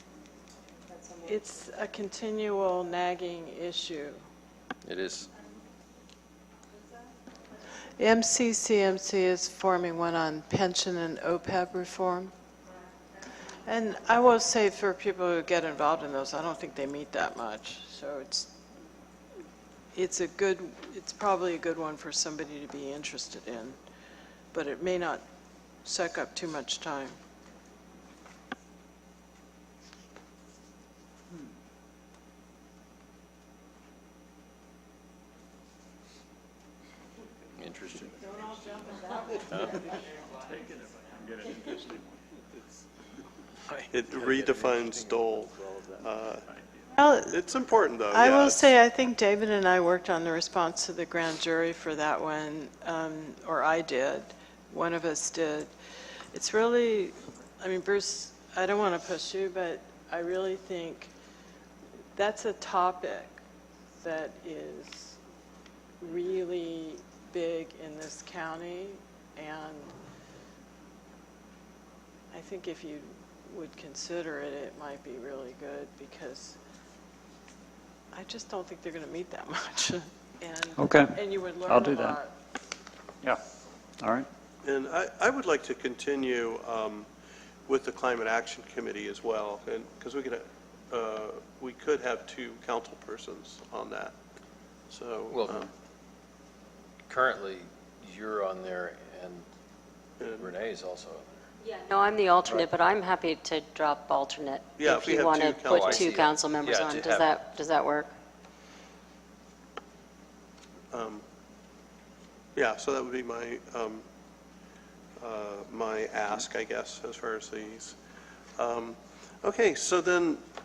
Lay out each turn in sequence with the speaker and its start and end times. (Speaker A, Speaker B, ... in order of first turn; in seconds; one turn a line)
Speaker A: 0.9-1.5
Speaker B: 1.2-4.2
Speaker C: 4.8-5.3
Speaker B: 8.0-12.3
Speaker B: 13.6-18.5
Speaker B: 19.9-23.8
Speaker B: 24.5-25.2
Speaker B: 25.8-27.2
Speaker C: 37.6-38.5
Speaker D: 38.3-39.2
Speaker C: 39.3-39.9
Speaker D: 39.9-42.2
Speaker C: 43.7-44.7
Speaker E: 43.9-46.4
Speaker D: 44.6-46.8
Speaker B: 46.9-47.4
Speaker E: 47.3-48.7
Speaker B: 48.1-55.7
Speaker B: 56.3-61.1
Speaker B: 62.1-63.4
Speaker B: 64.0-65.2
Speaker B: 66.0-69.9
Speaker B: 72.3-76.6
Speaker B: 78.1-82.3
Speaker D: 80.8-82.2
Speaker D: 84.0-84.3
Speaker E: 84.6-87.1
Speaker E: 87.7-94.2
Speaker E: 94.9-95.7
Speaker C: 95.3-95.7
Speaker C: 97.1-99.5
Speaker E: 100.2-100.5
Speaker C: 100.2-101.4
Speaker A: 101.6-108.1
Speaker E: 104.8-106.1
Speaker C: 105.7-107.3
Speaker E: 110.9-111.2
Speaker E: 112.5-114.0
Speaker E: 115.2-118.0
Speaker E: 118.6-120.4